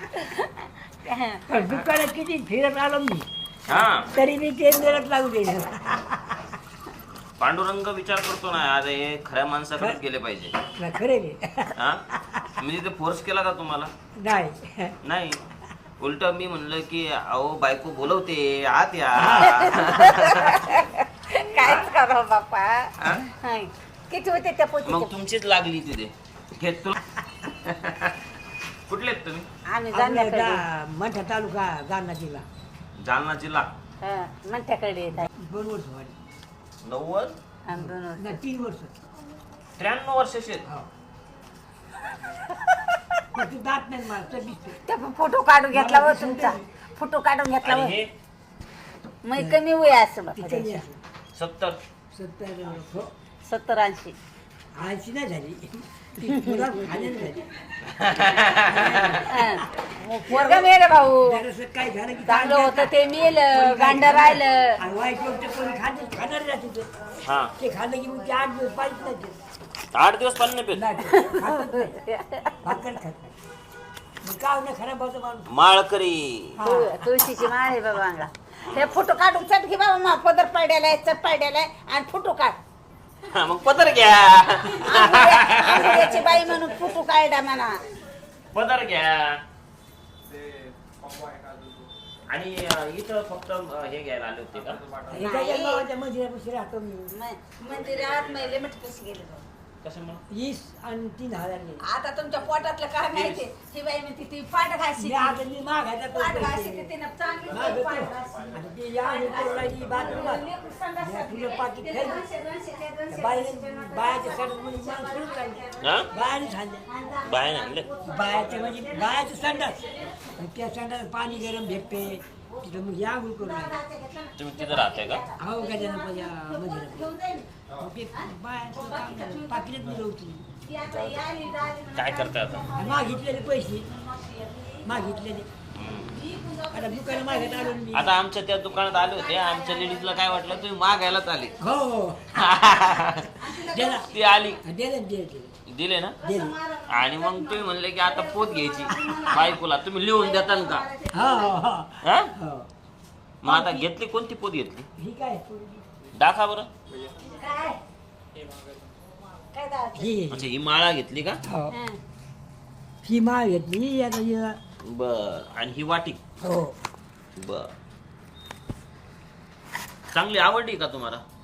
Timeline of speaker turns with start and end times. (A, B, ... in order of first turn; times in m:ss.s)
0:00.1-0:01.7 A
0:01.5-0:06.4 B
0:03.7-0:04.1 C
0:07.4-0:10.6 C
0:10.8-0:12.5 B
0:11.8-0:12.0 C
0:12.6-0:13.9 C
0:14.2-0:15.0 B
0:15.0-0:15.4 C
0:16.0-0:20.7 C
0:19.2-0:20.0 B
0:19.4-0:25.1 A
0:21.6-0:21.9 C
0:24.8-0:27.0 C
0:27.6-0:28.2 C
0:28.9-0:29.5 C
0:29.7-0:30.6 A
0:29.9-0:32.5 B
0:33.0-0:33.7 C
0:34.0-0:35.3 A
0:35.4-0:36.2 B
0:36.8-0:37.4 C
0:37.7-0:38.4 A
0:37.7-0:39.0 B
0:39.8-0:40.7 C
0:42.6-0:43.2 A
0:43.3-0:44.8 B
0:44.9-0:48.0 A
0:45.7-0:46.7 B
0:47.6-0:48.1 C
0:49.2-0:50.8 A
0:49.4-0:49.6 B
0:50.3-0:51.0 B
0:51.4-0:51.8 C
0:52.1-0:53.1 B
0:53.4-0:54.2 A
0:54.8-0:57.5 B
0:56.2-0:56.7 A
0:58.0-0:59.2 C
0:58.7-1:02.9 B
0:59.3-1:01.4 A
1:02.3-1:04.8 A
1:03.5-1:06.9 B
1:07.2-1:07.5 C
1:07.6-1:09.4 B
1:09.9-1:10.8 C
1:10.7-1:12.0 B
1:11.0-1:12.7 A
1:12.6-1:13.4 B
1:14.2-1:15.5 B
1:15.5-1:16.6 C
1:16.6-1:17.4 B
1:16.6-1:22.6 A
1:23.3-1:26.3 C
1:24.8-1:27.8 A
1:28.5-1:29.4 C
1:32.3-1:35.0 C
1:35.1-1:37.1 B
1:35.2-1:35.8 A
1:37.1-1:39.4 A
1:39.8-1:40.2 C
1:40.3-1:41.8 B
1:41.8-1:45.4 A
1:43.1-1:43.4 C
1:45.0-1:46.9 B
1:46.1-1:48.5 A
1:47.5-1:50.4 B
1:49.0-1:56.0 A
1:51.0-1:52.2 B
1:53.1-1:56.9 B
1:55.8-1:56.1 C
1:56.9-2:00.4 A
1:57.2-1:57.9 C
1:58.0-1:59.8 B
2:00.4-2:03.8 B
2:01.6-2:02.0 A
2:03.4-2:07.6 A
2:04.4-2:05.2 C
2:05.4-2:10.5 B
2:08.1-2:09.7 A
2:10.6-2:15.1 A
2:10.8-2:11.3 C
2:11.9-2:12.6 C
2:12.8-2:13.9 B
2:14.8-2:15.5 B
2:15.8-2:16.2 C
2:16.1-2:17.8 A
2:16.7-2:18.1 B
2:17.9-2:21.6 C
2:19.1-2:20.4 A
2:21.6-2:22.6 B
2:22.4-2:23.5 C
2:23.4-2:24.2 A
2:23.6-2:24.1 B
2:24.1-2:24.6 C
2:24.6-2:25.5 B
2:25.7-2:26.2 C
2:26.2-2:31.6 A
2:26.2-2:26.6 B
2:26.9-2:30.9 C
2:28.9-2:29.4 B
2:31.1-2:32.7 B
2:32.0-2:32.3 C
2:33.4-2:34.9 C
2:33.5-2:33.8 B
2:35.0-2:35.9 B
2:36.2-2:36.7 C
2:37.2-2:37.8 A
2:39.5-2:40.2 A
2:40.0-2:40.5 B
2:40.3-2:41.4 C
2:41.5-2:41.8 B
2:41.7-2:42.0 A
2:43.0-2:44.6 B
2:44.8-2:46.2 C
2:46.4-2:46.8 B
2:47.3-2:47.7 C
2:50.1-2:51.2 C